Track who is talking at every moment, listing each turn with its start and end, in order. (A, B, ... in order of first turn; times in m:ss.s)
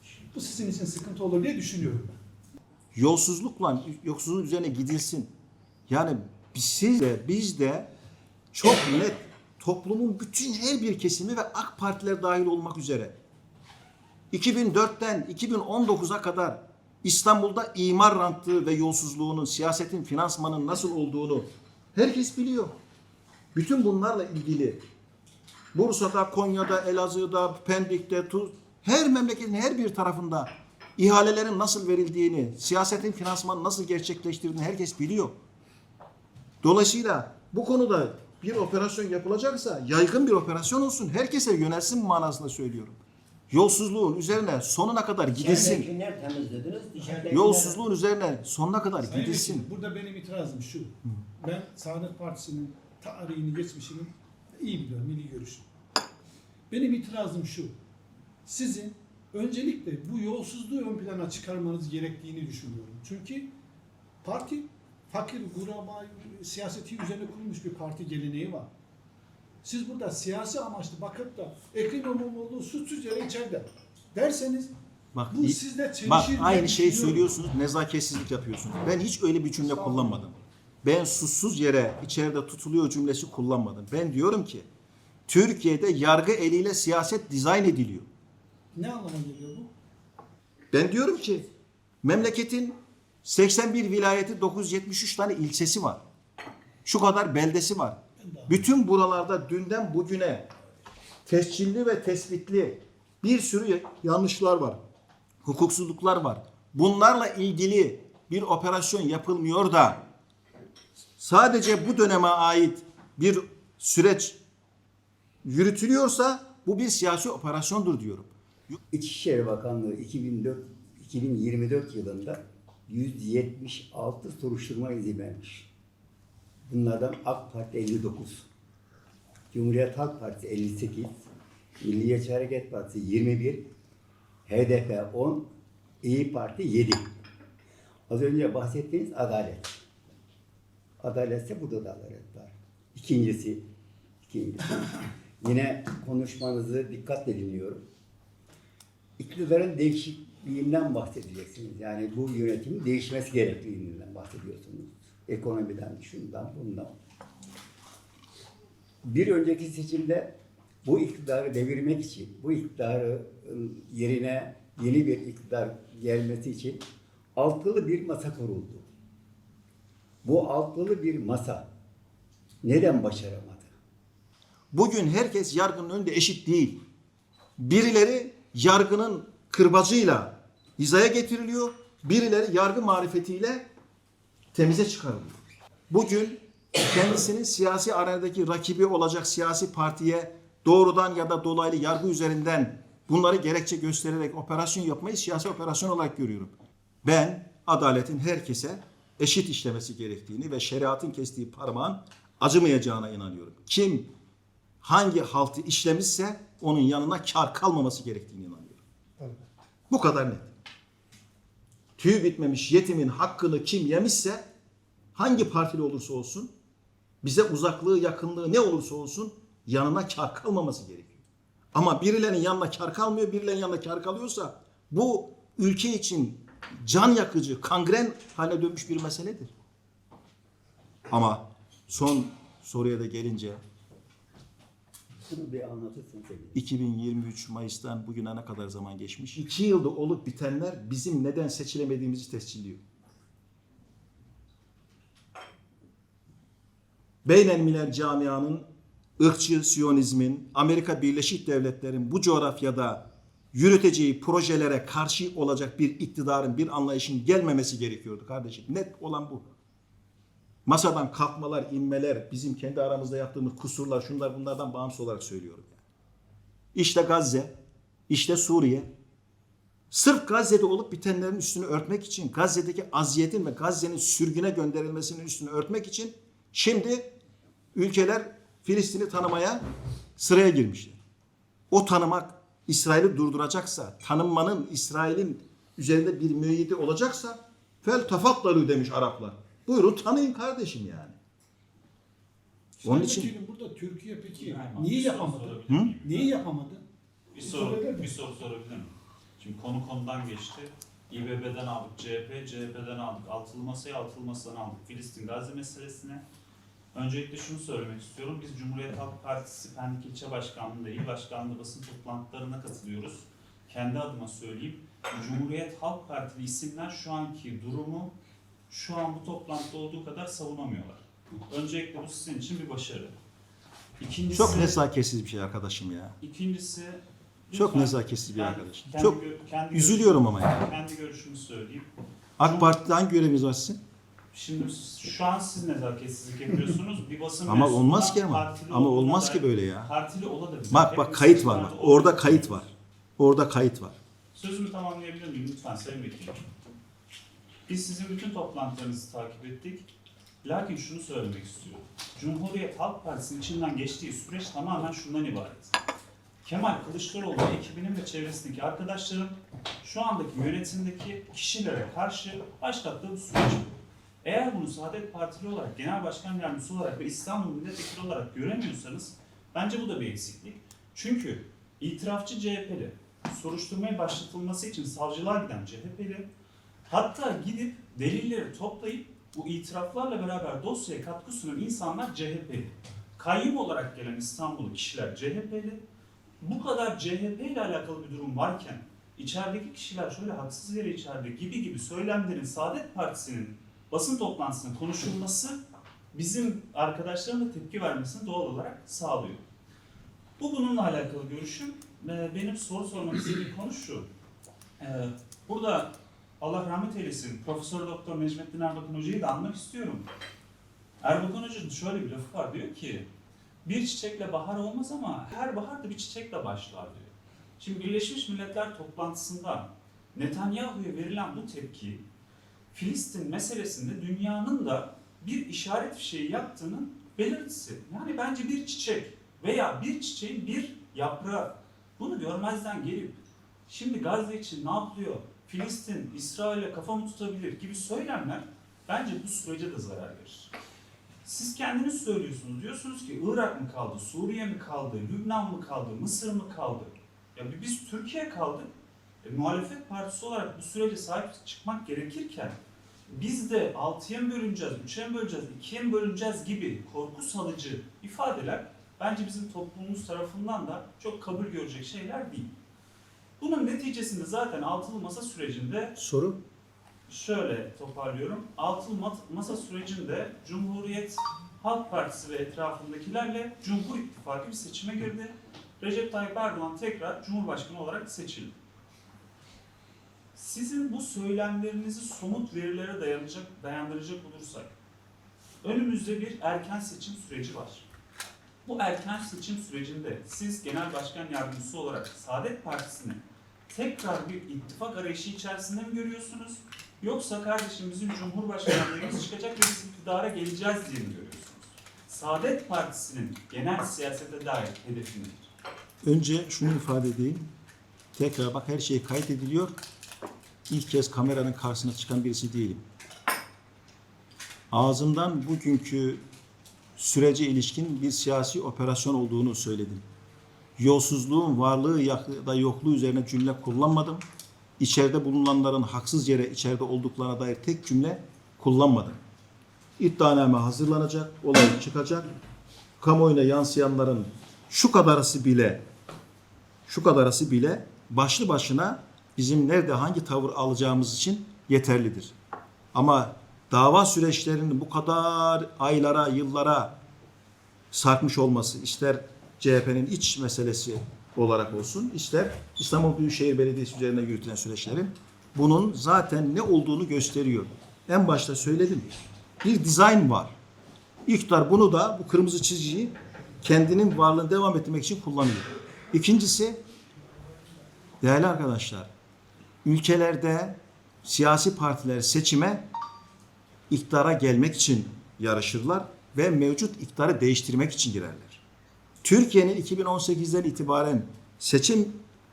0:00.3-0:02.2 A
0:02.9-0:05.3 B
0:05.9-0:07.9 B
0:08.5-0:13.2 B
0:14.3-0:22.8 B
0:23.6-0:24.8 B
0:25.7-0:35.4 B
0:36.6-0:45.9 B
0:45.4-0:47.8 C
0:45.5-0:45.8 A
0:47.3-0:49.7 B
0:49.0-0:55.7 A
0:56.7-0:57.8 A
0:58.5-1:03.5 A
1:04.2-1:08.7 A
1:09.6-1:14.7 A
1:15.1-1:24.7 B
1:15.3-1:17.3 A
1:19.6-1:20.2 A
1:25.3-1:28.1 B
1:28.8-1:29.7 A
1:30.7-1:31.5 B
1:32.0-1:36.0 B
1:36.8-1:40.5 B
1:38.2-1:38.6 A
1:41.3-1:44.8 B
1:45.4-1:50.0 B
1:51.2-1:54.4 B
1:55.4-1:58.3 B
1:58.9-2:05.7 D
2:06.7-2:08.5 D
2:09.5-2:11.2 D
2:11.8-2:13.7 D
2:14.5-2:15.5 D
2:16.0-2:17.1 D
2:18.1-2:19.8 D
2:21.0-2:23.6 D
2:24.2-2:27.8 D
2:29.2-2:37.0 D
2:39.0-2:46.8 D
2:47.4-2:48.9 D
2:50.2-2:51.7 D
2:52.6-2:53.7 D
2:54.7-2:56.8 B
2:57.6-3:03.6 B
3:04.5-3:05.4 B
3:05.9-3:24.1 B
3:24.8-3:28.8 B
3:29.9-3:30.5 B
3:32.0-3:34.4 B
3:35.2-3:36.5 B
3:37.2-3:41.2 B
3:41.7-3:49.5 B
3:51.1-3:53.6 B
3:55.3-3:56.6 D
3:56.6-4:02.8 B
4:07.2-4:08.6 B
4:09.2-4:19.5 B
4:20.7-4:25.8 B
4:26.7-4:27.5 B
4:28.1-4:28.9 B
4:29.9-4:37.1 B
4:37.7-4:39.6 B
4:40.2-4:41.0 B
4:41.7-4:51.2 B
4:52.8-4:56.8 A
4:52.9-4:53.3 B
4:54.3-4:56.3 E
4:57.3-5:06.2 E
4:57.4-4:58.1 A
5:06.9-5:18.1 E
5:18.7-5:23.2 E
5:24.0-5:24.8 E
5:24.3-5:26.2 B
5:26.2-5:31.9 E
5:27.5-5:30.7 B
5:32.4-5:33.8 B
5:32.4-5:32.7 E
5:34.3-5:42.7 E
5:37.5-5:39.9 B
5:40.7-5:44.0 B
5:44.4-5:46.4 E
5:47.7-5:49.9 E
5:50.4-5:55.8 E
5:56.4-6:16.3 E
6:16.9-6:25.8 E
6:26.4-6:35.6 E
6:36.1-6:39.4 E
6:40.4-6:44.1 E
6:44.8-6:50.1 E
6:51.0-6:53.1 E
6:53.6-7:02.0 E
7:02.7-7:20.5 E
7:21.2-7:28.7 E
7:29.2-7:42.5 E
7:43.4-7:46.0 E
7:46.0-7:46.4 B
7:47.1-7:58.6 E
8:00.3-8:04.7 E
8:05.6-8:07.9 E
8:08.6-8:25.5 E
8:26.0-8:27.5 B
8:28.2-8:29.8 B
8:30.7-8:32.8 B
8:34.7-8:36.2 B
8:37.0-8:40.0 B
8:40.8-8:44.2 B
8:44.8-8:49.2 B
8:50.0-8:52.3 B
8:53.0-8:55.8 B
8:56.9-9:02.4 B
9:02.9-9:07.0 B
9:07.9-9:19.1 B
9:19.6-9:20.6 B
9:21.3-9:26.8 B
9:28.2-9:29.1 B
9:29.8-9:32.8 B
9:33.9-9:38.6 B
9:39.2-9:42.2 B